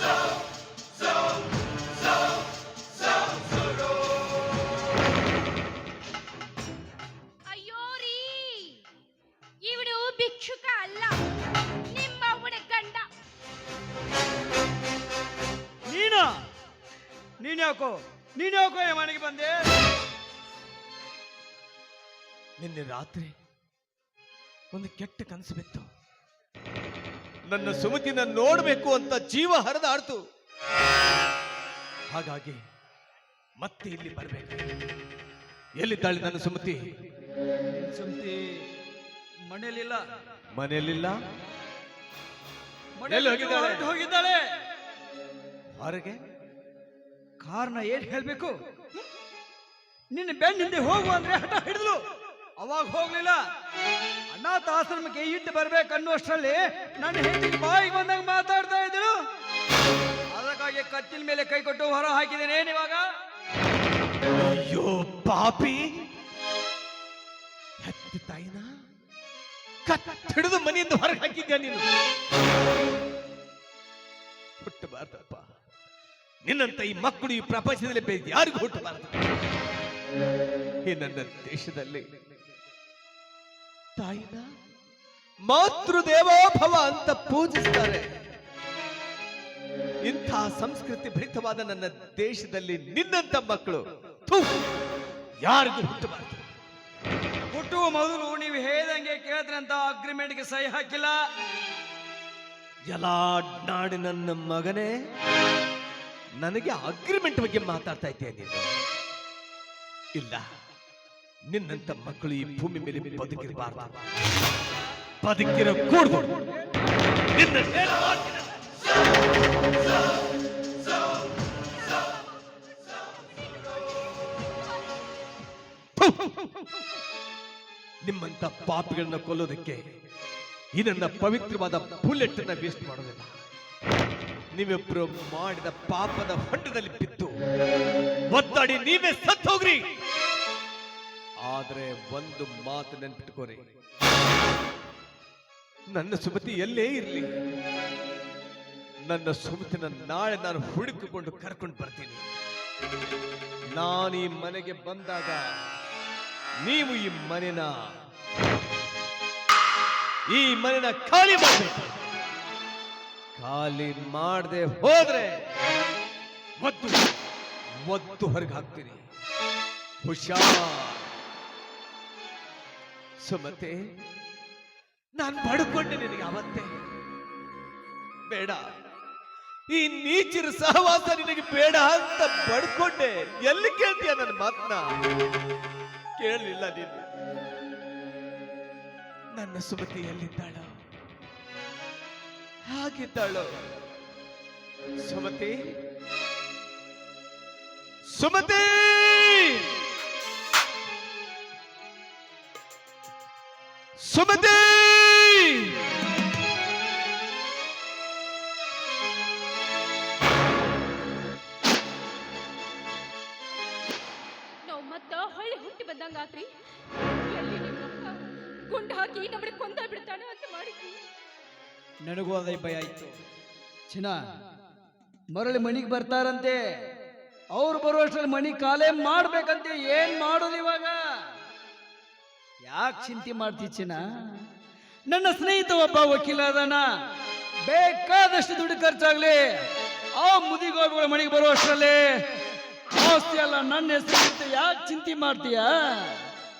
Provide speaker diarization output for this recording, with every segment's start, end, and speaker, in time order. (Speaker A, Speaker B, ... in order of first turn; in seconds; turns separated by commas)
Speaker A: 7.5-8.8, Speaker A: 9.6-11.2, Speaker A: 11.9-13.0, Speaker B: 15.9-16.3, Speaker B: 17.4-19.7, Speaker C: 22.6-23.3, Speaker C: 24.7-25.9, Speaker C: 27.4-30.2, Speaker C: 32.1-32.6, Speaker C: 33.6-34.6, Speaker C: 35.8-36.8, Speaker B: 37.7-38.6, Speaker B: 39.4-40.0, Speaker C: 40.5-41.2, Speaker B: 43.0-44.4, Speaker C: 43.0-43.9, Speaker C: 45.8-46.2, Speaker B: 47.4-48.5, Speaker B: 50.1-52.0, Speaker B: 52.6-53.4, Speaker B: 54.3-59.1, Speaker B: 60.3-63.0, Speaker C: 64.3-66.1, Speaker C: 67.8-68.7, Speaker C: 69.8-71.9, Speaker C: 74.6-75.5, Speaker C: 76.5-79.2, Speaker C: 80.8-82.0, Speaker C: 84.0-84.5, Speaker C: 85.4-88.0, Speaker C: 90.0-94.6, Speaker C: 95.4-96.5, Speaker B: 97.5-101.2, Speaker C: 102.8-104.9, Speaker C: 106.4-108.7, Speaker C: 110.1-110.4, Speaker C: 111.5-114.0, Speaker C: 115.2-116.4, Speaker C: 117.3-118.5, Speaker C: 126.0-126.5, Speaker C: 128.0-129.8, Speaker C: 130.7-133.3, Speaker C: 134.5-137.3, Speaker C: 138.3-139.9, Speaker C: 141.4-143.6, Speaker C: 145.9-147.3, Speaker C: 149.1-152.2, Speaker C: 153.7-155.4, Speaker C: 156.6-157.7, Speaker C: 160.3-162.0, Speaker C: 163.3-165.4, Speaker C: 166.6-167.0, Speaker C: 167.8-169.0, Speaker C: 170.0-171.1, Speaker C: 173.2-173.8, Speaker C: 175.1-176.7, Speaker C: 178.3-178.6, Speaker C: 179.7-185.0, Speaker C: 186.2-187.1, Speaker C: 189.3-190.8, Speaker C: 192.7-193.5, Speaker C: 195.0-195.8, Speaker C: 198.1-199.7, Speaker C: 204.0-205.8, Speaker A: 214.6-216.5, Speaker A: 217.3-221.0, Speaker B: 222.0-223.2, Speaker B: 223.9-224.2, Speaker B: 225.3-226.6, Speaker B: 227.5-231.0, Speaker B: 232.6-234.4, Speaker B: 235.1-236.8, Speaker B: 237.6-239.6, Speaker B: 240.2-242.2, Speaker B: 242.9-246.2